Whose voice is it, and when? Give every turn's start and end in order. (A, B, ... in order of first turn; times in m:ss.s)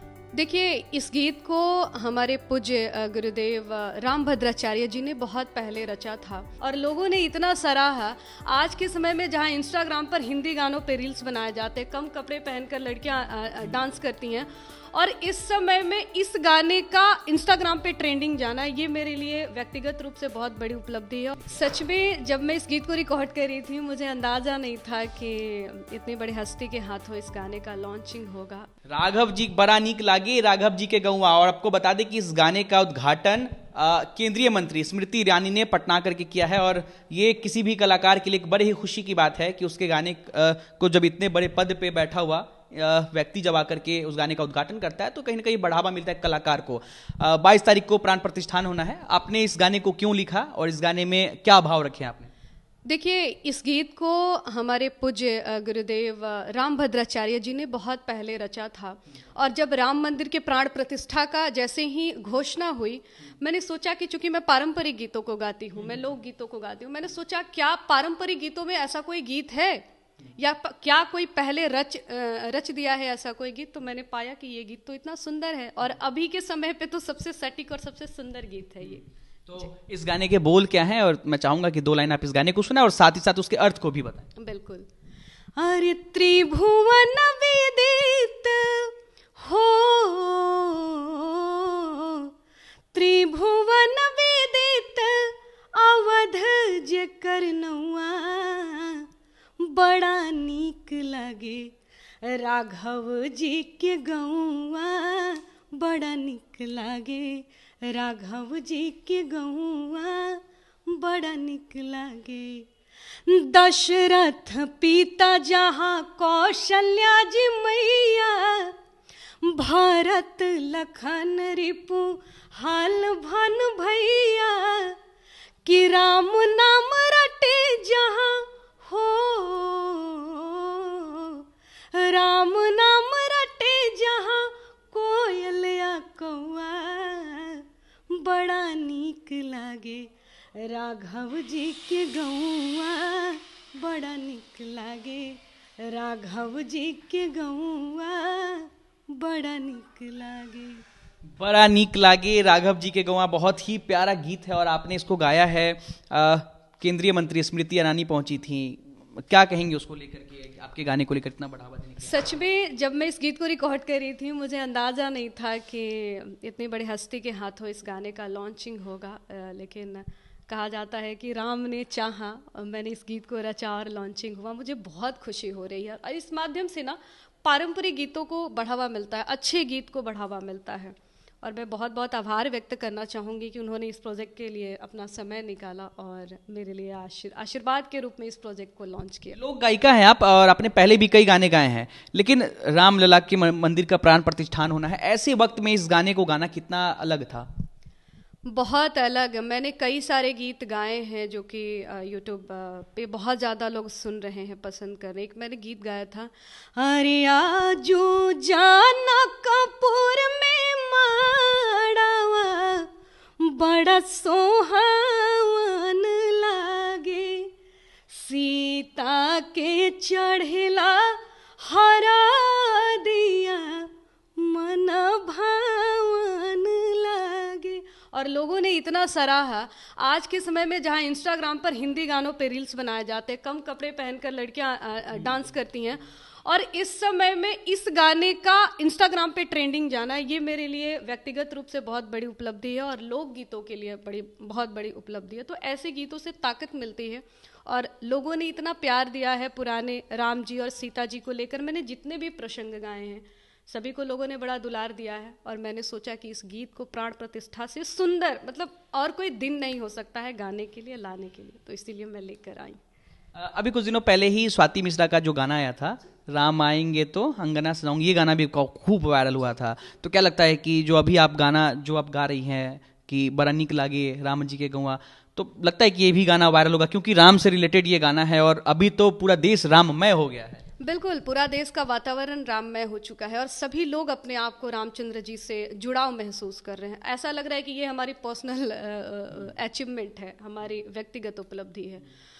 0:00.4-0:28.7 A
0:28.9-0:52.3 B
0:52.9-1:09.8 A
1:10.4-1:19.0 A
1:18.8-1:24.3 B
1:24.4-1:24.9 A
1:25.6-1:32.3 A
1:32.9-1:39.1 A
1:39.6-1:52.7 A
1:53.2-1:58.8 A
1:59.4-2:05.0 A
2:05.6-2:30.8 A
2:31.4-2:42.4 B
2:42.0-3:09.4 A
3:09.3-3:17.5 B
3:18.5-3:37.5 A
3:38.1-4:22.8 A
4:23.4-4:40.6 B
4:40.8-4:52.0 A